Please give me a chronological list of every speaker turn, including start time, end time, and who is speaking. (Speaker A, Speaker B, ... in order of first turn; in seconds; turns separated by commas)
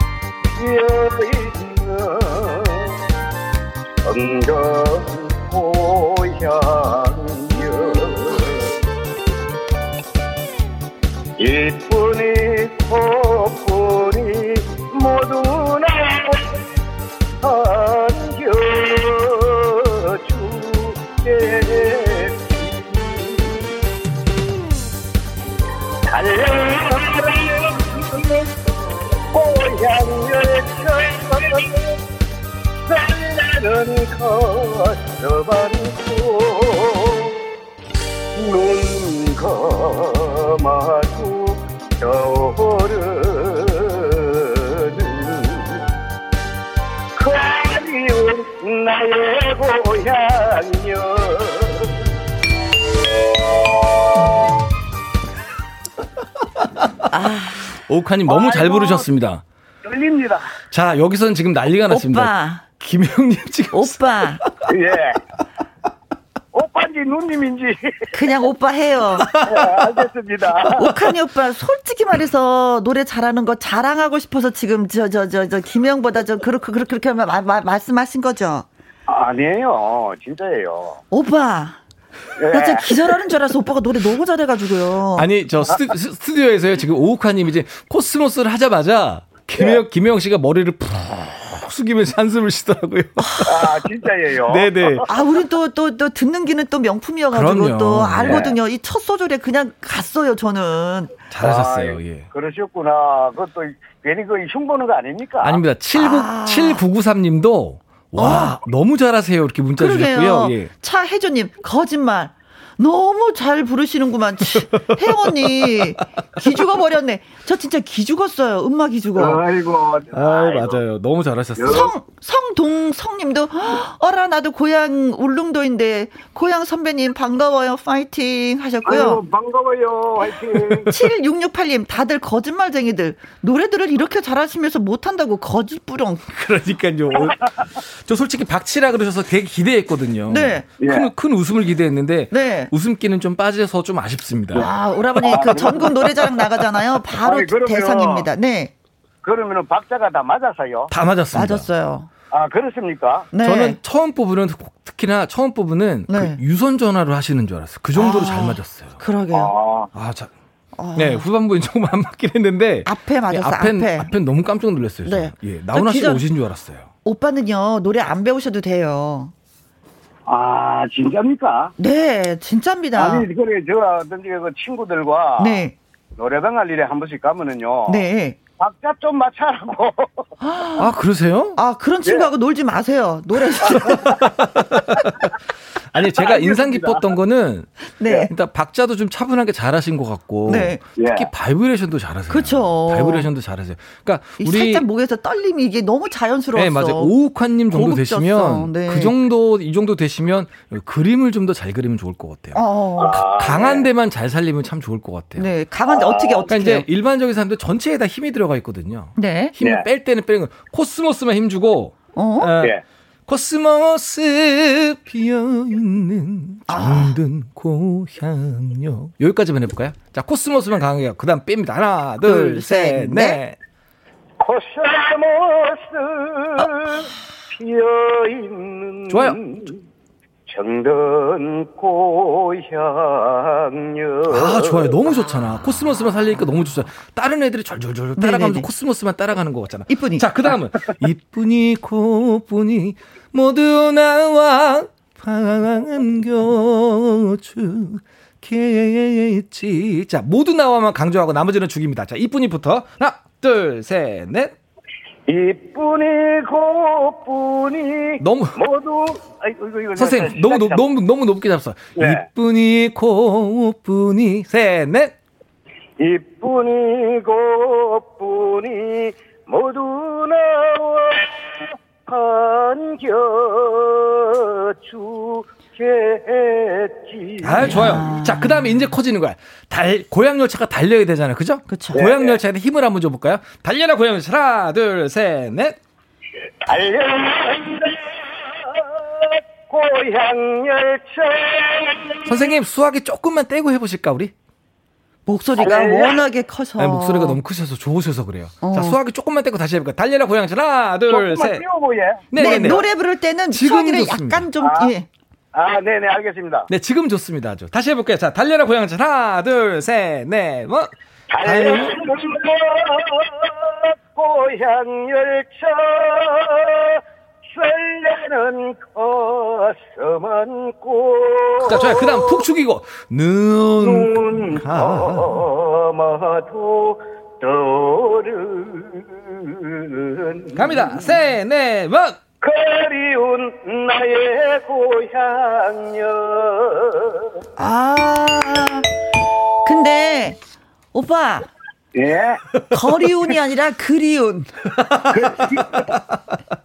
Speaker A: 0.6-2.9, Speaker A: 4.0-8.7, Speaker A: 11.4-16.6, Speaker A: 17.4-23.6, Speaker A: 26.1-28.5, Speaker A: 29.3-32.0, Speaker A: 32.9-37.4, Speaker A: 38.4-45.8, Speaker A: 47.2-52.0, Speaker B: 57.1-57.8, Speaker C: 57.8-59.4, Speaker A: 58.3-59.1, Speaker A: 59.8-60.5, Speaker C: 60.7-64.5, Speaker B: 61.9-62.6, Speaker B: 63.7-64.4, Speaker A: 64.7-65.2, Speaker A: 66.5-67.9, Speaker B: 68.1-69.3, Speaker C: 69.3-69.9, Speaker A: 69.4-70.9, Speaker B: 70.7-78.7, Speaker A: 79.1-81.0, Speaker B: 81.1-81.8, Speaker A: 82.4-82.9, Speaker B: 82.5-85.3, Speaker C: 85.2-93.8, Speaker A: 93.5-95.1, Speaker C: 94.5-95.1, Speaker B: 95.1-101.1, Speaker C: 97.3-98.5, Speaker A: 98.2-98.6, Speaker C: 101.3-102.3, Speaker A: 101.4-105.6, Speaker C: 105.4-110.7, Speaker B: 105.9-106.8, Speaker B: 108.2-108.6, Speaker B: 109.8-119.4, Speaker A: 119.2-120.8, Speaker C: 120.1-121.9, Speaker A: 121.6-121.9, Speaker B: 121.7-129.2, Speaker A: 128.8-130.9, Speaker C: 130.6-130.9, Speaker B: 130.9-136.3, Speaker C: 136.3-144.7, Speaker B: 140.3-140.7, Speaker A: 140.8-141.1, Speaker B: 142.3-142.7, Speaker B: 144.6-148.7, Speaker A: 145.2-146.1, Speaker A: 147.2-148.3, Speaker A: 149.2-150.9, Speaker C: 150.9-151.7, Speaker B: 151.3-152.1, Speaker A: 152.3-153.3, Speaker B: 153.3-153.8, Speaker C: 153.4-159.0, Speaker B: 156.1-156.4, Speaker B: 157.9-159.5, Speaker A: 159.3-159.9, Speaker C: 159.9-160.3, Speaker B: 160.8-161.3, Speaker C: 160.9-166.9, Speaker B: 162.8-164.1, Speaker B: 165.1-166.2, Speaker B: 167.1-169.3, Speaker A: 170.3-171.7, Speaker B: 171.8-173.3, Speaker A: 173.0-175.7, Speaker B: 175.4-175.8, Speaker A: 176.2-180.3, Speaker B: 177.9-178.4, Speaker B: 180.4-180.9, Speaker C: 180.8-181.6, Speaker B: 181.6-184.1, Speaker A: 183.7-184.1, Speaker C: 184.0-185.3, Speaker C: 185.9-187.7, Speaker A: 186.2-187.0, Speaker B: 188.0-188.3, Speaker C: 188.3-194.8, Speaker B: 190.5-190.8, Speaker A: 191.0-191.3, Speaker B: 192.3-193.3, Speaker B: 194.4-197.2, Speaker C: 196.6-205.5, Speaker B: 197.7-199.1, Speaker B: 202.5-203.2, Speaker A: 203.0-203.9, Speaker B: 205.4-206.9, Speaker A: 205.9-206.5, Speaker C: 206.5-212.7, Speaker B: 209.2-209.6, Speaker B: 212.2-212.5, Speaker C: 213.3-223.6, Speaker B: 216.7-217.2, Speaker B: 222.2-223.4, Speaker A: 224.4-229.8, Speaker C: 229.1-229.4, Speaker A: 230.5-234.9, Speaker C: 234.3-254.6, Speaker B: 238.2-238.7, Speaker B: 239.9-240.3, Speaker A: 255.3-260.8, Speaker C: 258.2-258.6, Speaker C: 260.0-265.1, Speaker A: 262.0-262.3, Speaker A: 266.0-271.4, Speaker A: 272.1-277.8, Speaker C: 277.4-285.8, Speaker B: 277.6-278.8, Speaker B: 281.7-282.1, Speaker A: 281.9-282.4, Speaker A: 286.6-292.4, Speaker C: 292.3-294.3, Speaker B: 295.3-297.4, Speaker A: 295.6-296.2, Speaker C: 296.8-301.6, Speaker B: 298.6-299.0, Speaker A: 301.1-302.8, Speaker C: 302.3-302.9, Speaker B: 302.4-305.1, Speaker C: 303.5-304.5, Speaker A: 304.6-304.9, Speaker A: 305.5-306.7, Speaker C: 306.7-310.9, Speaker A: 311.3-322.4, Speaker C: 311.4-311.9, Speaker C: 321.6-325.5, Speaker A: 323.8-331.1, Speaker C: 330.6-332.2, Speaker A: 332.4-337.4, Speaker B: 337.6-338.9, Speaker B: 339.6-340.4, Speaker B: 340.9-341.5, Speaker A: 341.9-342.4, Speaker B: 342.7-344.5, Speaker C: 344.8-346.0, Speaker A: 345.1-345.9